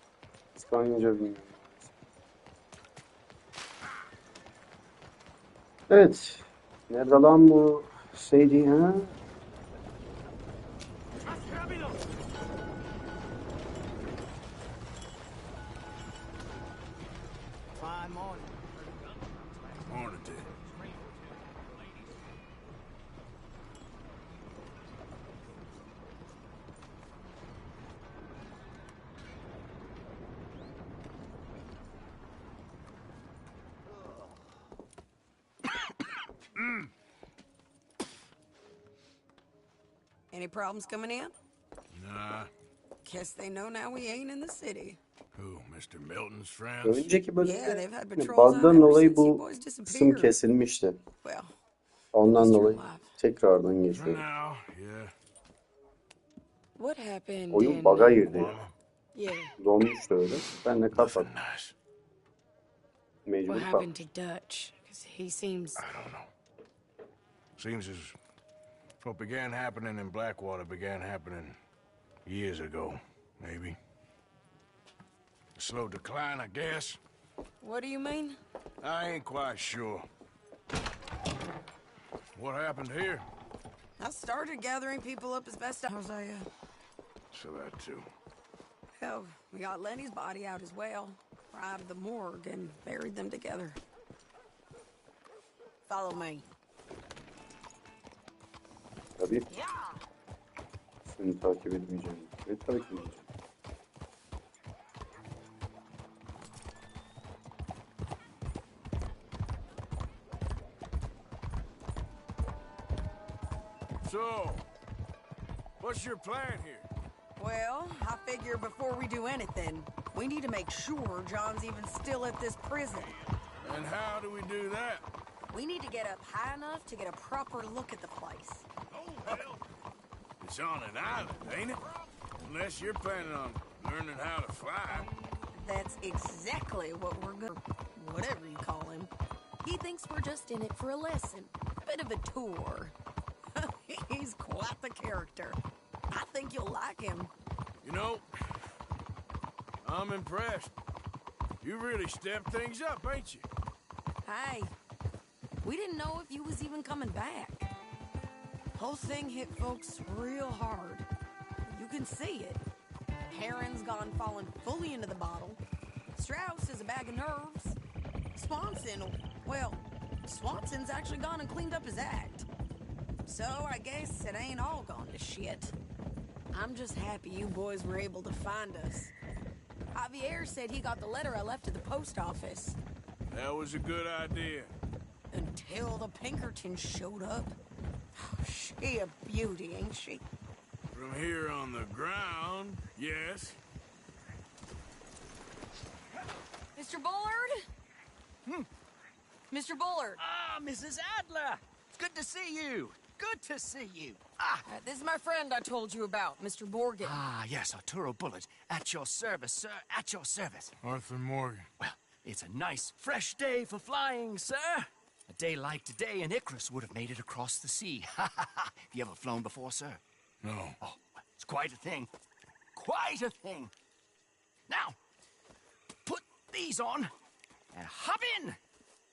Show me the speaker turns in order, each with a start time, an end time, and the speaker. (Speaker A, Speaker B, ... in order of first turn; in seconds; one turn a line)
Speaker A: 0.6-1.9
Speaker A: 5.9-9.1
Speaker B: 11.3-12.0
Speaker B: 17.8-18.7
Speaker C: 19.0-19.3
Speaker D: 19.9-20.5
Speaker B: 20.7-21.8
Speaker E: 40.3-41.3
Speaker D: 41.9-42.5
Speaker E: 43.0-45.0
Speaker D: 45.4-47.1
Speaker A: 46.8-51.0
Speaker E: 47.4-50.3
Speaker E: 51.2-51.5
Speaker A: 52.1-54.2
Speaker E: 52.2-53.1
Speaker D: 53.9-55.1
Speaker E: 56.8-58.2
Speaker A: 57.5-58.6
Speaker D: 58.2-58.7
Speaker E: 59.1-59.5
Speaker A: 59.6-61.3
Speaker D: 60.9-61.7
Speaker A: 63.2-63.9
Speaker E: 63.5-65.8
Speaker D: 65.7-66.3
Speaker D: 67.6-68.1
Speaker D: 69.0-71.6
Speaker D: 72.2-73.8
Speaker D: 75.5-77.0
Speaker E: 77.6-78.4
Speaker D: 78.8-80.0
Speaker D: 82.3-83.2
Speaker E: 84.0-86.5
Speaker D: 87.3-88.1
Speaker E: 89.0-93.8
Speaker E: 95.9-96.4
Speaker A: 99.2-99.5
Speaker E: 99.5-100.0
Speaker A: 101.0-103.2
Speaker D: 114.0-114.7
Speaker D: 115.8-116.9
Speaker E: 117.4-123.2
Speaker D: 123.6-125.0
Speaker E: 125.5-128.6
Speaker D: 129.0-129.6
Speaker D: 130.4-131.8
Speaker D: 132.4-135.1
Speaker E: 135.6-139.1
Speaker E: 139.6-142.9
Speaker E: 143.5-145.6
Speaker E: 146.1-147.3
Speaker D: 147.8-148.2
Speaker D: 149.8-150.7
Speaker D: 151.6-153.4
Speaker E: 154.2-154.7
Speaker E: 155.6-157.7
Speaker E: 158.7-161.1
Speaker E: 161.7-162.6
Speaker E: 163.3-165.6
Speaker E: 166.1-167.8
Speaker E: 168.3-172.5
Speaker E: 173.2-175.7
Speaker E: 176.5-179.1
Speaker E: 179.9-182.8
Speaker D: 183.3-184.7
Speaker E: 185.3-187.5
Speaker E: 188.1-190.2
Speaker D: 190.9-193.6
Speaker E: 196.7-197.6
Speaker E: 199.5-200.2
Speaker C: 200.2-204.7
Speaker E: 204.7-207.2
Speaker C: 207.0-210.8
Speaker D: 210.8-211.7
Speaker C: 211.8-220.0
Speaker D: 220.4-220.8
Speaker C: 220.8-222.1
Speaker C: 222.7-223.7
Speaker C: 224.7-224.9
Speaker C: 226.0-227.1
Speaker C: 227.7-228.6